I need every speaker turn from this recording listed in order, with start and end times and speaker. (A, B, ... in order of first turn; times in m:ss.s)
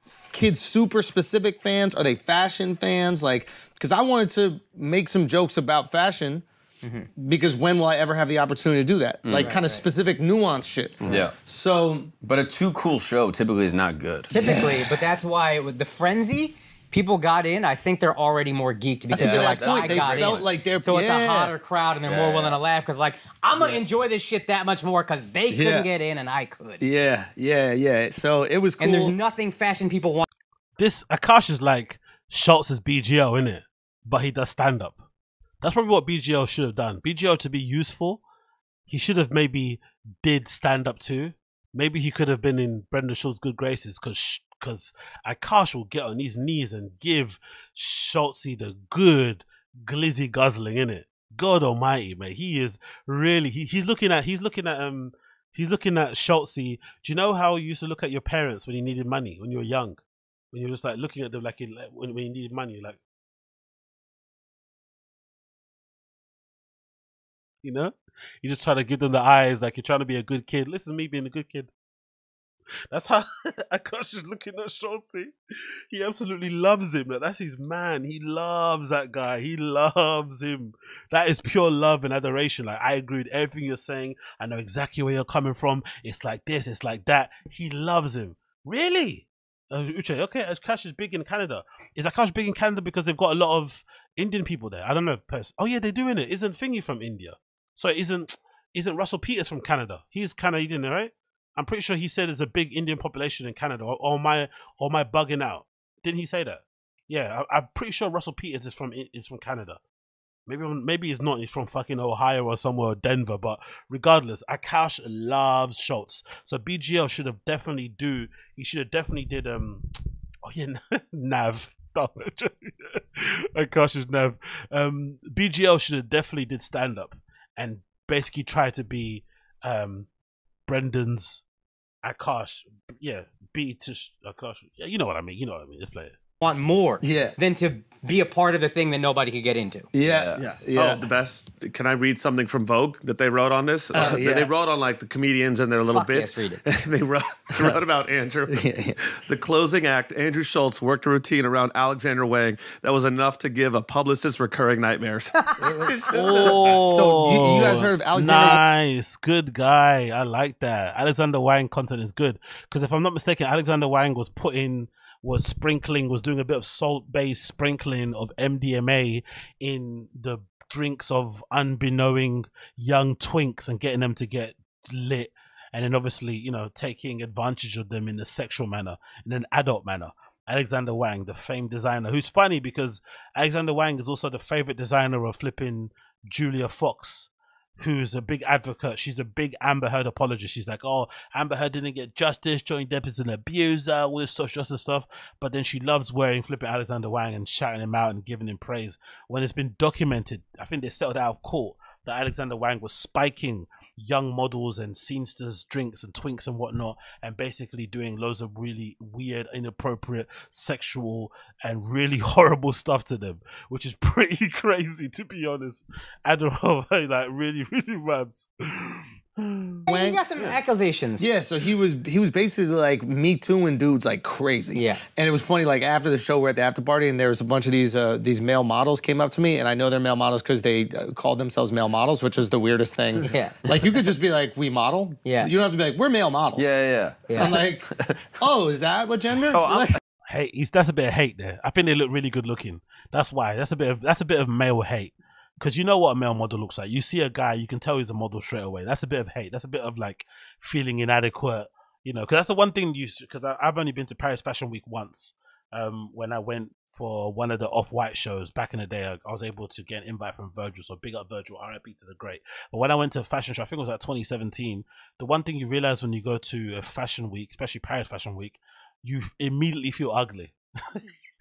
0:00.3-0:06.4 A
0:06.8-0:07.1 B
0:07.2-0:12.1 A
0:09.2-0:09.5 C
0:09.4-0:09.8 B
0:11.1-0:11.3 C
0:12.2-0:14.3 C
0:14.3-0:15.0 A
0:14.3-0:26.8 B
0:19.1-0:21.5 A
0:19.1-0:20.4 C
0:22.0-0:22.6 C
0:25.5-0:25.9 A
0:26.8-0:29.2 A
0:28.8-0:30.2 B
0:30.8-0:35.0 D
0:35.6-0:38.2 D
0:38.9-1:03.0 D
1:07.6-1:11.7 D
1:12.9-1:15.3 D
1:15.9-1:49.8 D
1:50.5-1:59.8 D
2:00.4-2:10.1 D
2:10.7-2:11.4 D
2:12.0-2:16.2 D
2:16.4-2:19.9 B
2:17.0-2:17.3 A
2:19.9-2:21.0 A
2:20.0-2:20.4 C
2:20.4-2:36.8 E
2:23.9-2:24.5 A
2:25.8-2:26.6 B
2:28.5-2:29.0 A
2:35.4-2:35.7 B
2:35.7-2:38.6 A
2:36.1-3:39.9 D
3:39.9-3:41.3 B
3:39.9-3:40.2 A
3:41.2-3:56.7 A
3:44.7-3:45.0 B
3:53.3-3:53.6 B
3:55.2-3:55.5 B
3:56.6-3:58.2 C
3:57.4-4:00.0 A
3:59.5-4:00.0 C
4:00.3-4:31.0 D